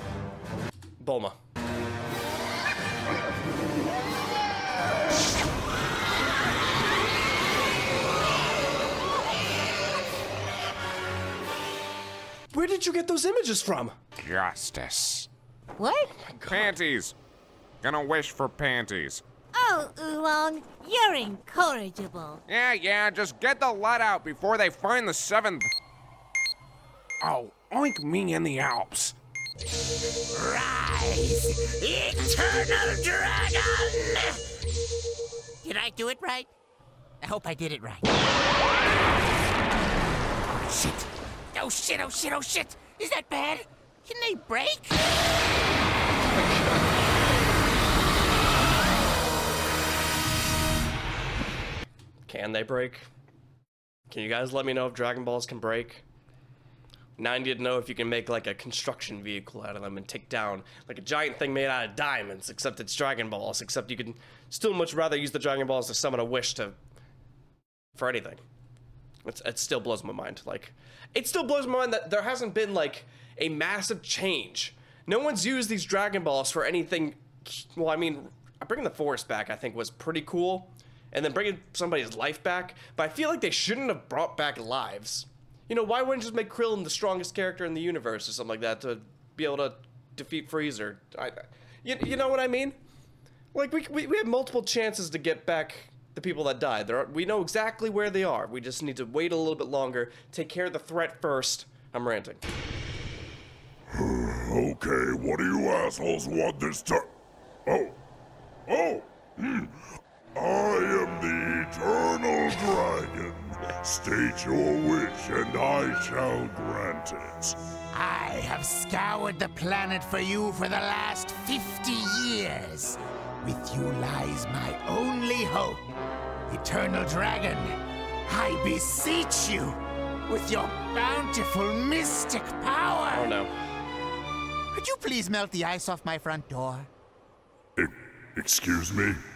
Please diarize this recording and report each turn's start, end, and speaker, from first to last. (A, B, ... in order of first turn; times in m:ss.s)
0:01.0-0:01.3 A
0:12.5-0:14.0 A
0:14.2-0:15.3 B
0:15.8-0:16.1 C
0:16.2-0:16.8 A
0:16.5-0:17.1 B
0:17.8-0:19.2 B
0:19.5-0:22.4 C
0:22.5-0:25.7 B
0:27.2-0:29.2 B
0:30.3-0:34.4 D
0:35.6-0:36.5 D
0:37.2-0:38.1 D
0:40.6-0:45.0 D
0:46.3-0:46.9 A
0:52.3-0:53.1 A
0:54.1-0:56.0 A
0:57.2-1:06.8 A
1:07.9-1:08.4 A
1:09.2-1:32.8 A
1:33.5-1:42.4 A
1:43.9-1:47.1 E
1:47.7-1:48.0 E
1:48.7-1:49.7 E
1:50.4-1:57.6 E
1:57.9-2:05.9 D
2:06.5-2:13.3 D
2:13.1-2:13.5 A
2:14.7-2:16.9 D
2:17.8-2:19.2 E